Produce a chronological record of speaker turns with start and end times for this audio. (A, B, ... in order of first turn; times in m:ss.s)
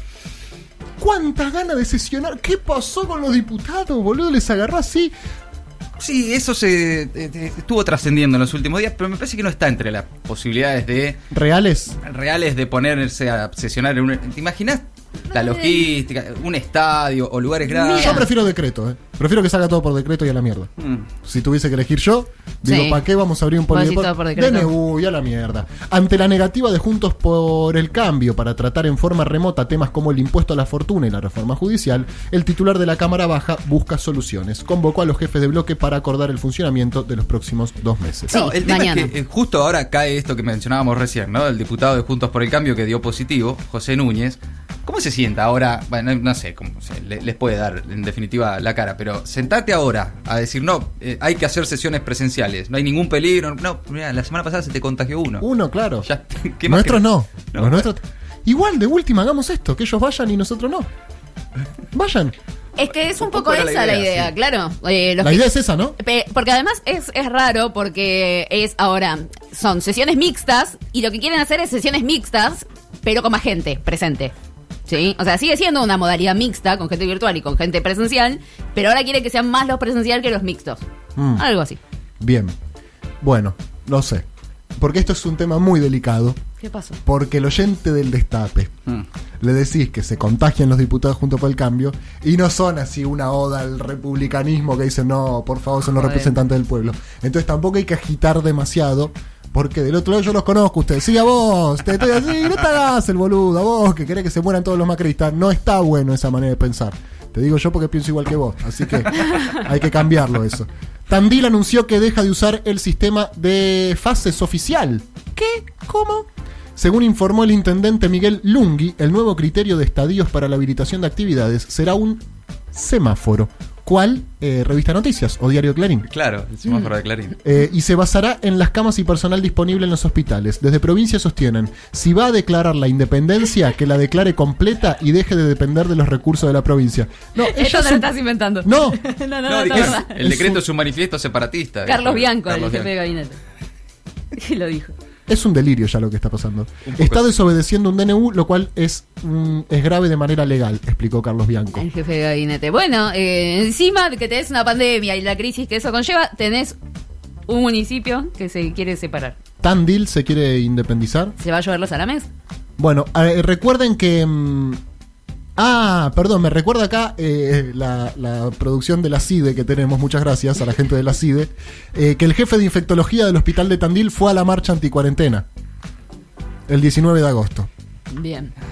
0:01.0-0:05.1 A
0:06.0-0:11.2 B
0:11.3-0:12.0 A
0:12.0-0:18.3 B
0:15.3-0:15.9 C
0:17.7-0:18.2 C
0:17.9-0:20.7 A
0:20.8-0:21.1 B
0:21.2-0:38.4 A
0:22.7-0:23.0 C
0:23.7-0:24.7 C
0:38.3-0:39.1 C
0:38.3-0:55.5 B
0:55.4-0:56.1 A
0:56.0-0:57.9 B
0:56.6-1:00.9 A
1:01.9-1:02.3 A
1:02.8-1:05.5 C
1:03.2-1:04.3 B
1:05.2-1:06.0 A
1:06.0-1:14.3 C
1:14.9-1:20.8 C
1:21.2-1:21.4 A
1:21.4-1:21.8 C
1:22.2-1:22.5 A
1:23.2-1:24.2 A
1:24.8-1:26.4 A
1:26.6-1:27.0 C
1:27.0-1:28.8 A
1:29.4-2:06.1 A
1:36.0-1:36.4 C
2:06.1-2:07.3 B
2:07.4-2:18.1 A
2:17.4-2:20.2 C
2:18.6-2:19.0 A
2:19.5-2:22.9 B
2:19.7-2:20.6 A
2:21.9-2:23.4 C
2:24.4-2:24.9 C
2:25.3-2:31.9 A
2:26.8-2:27.4 B
2:31.8-2:36.8 C
2:37.5-2:39.4 C
2:39.6-2:41.4 A
2:41.4-2:42.3 C
2:42.8-2:44.8 A
2:45.6-2:55.5 A
2:56.7-2:57.7 A
2:58.1-2:58.5 C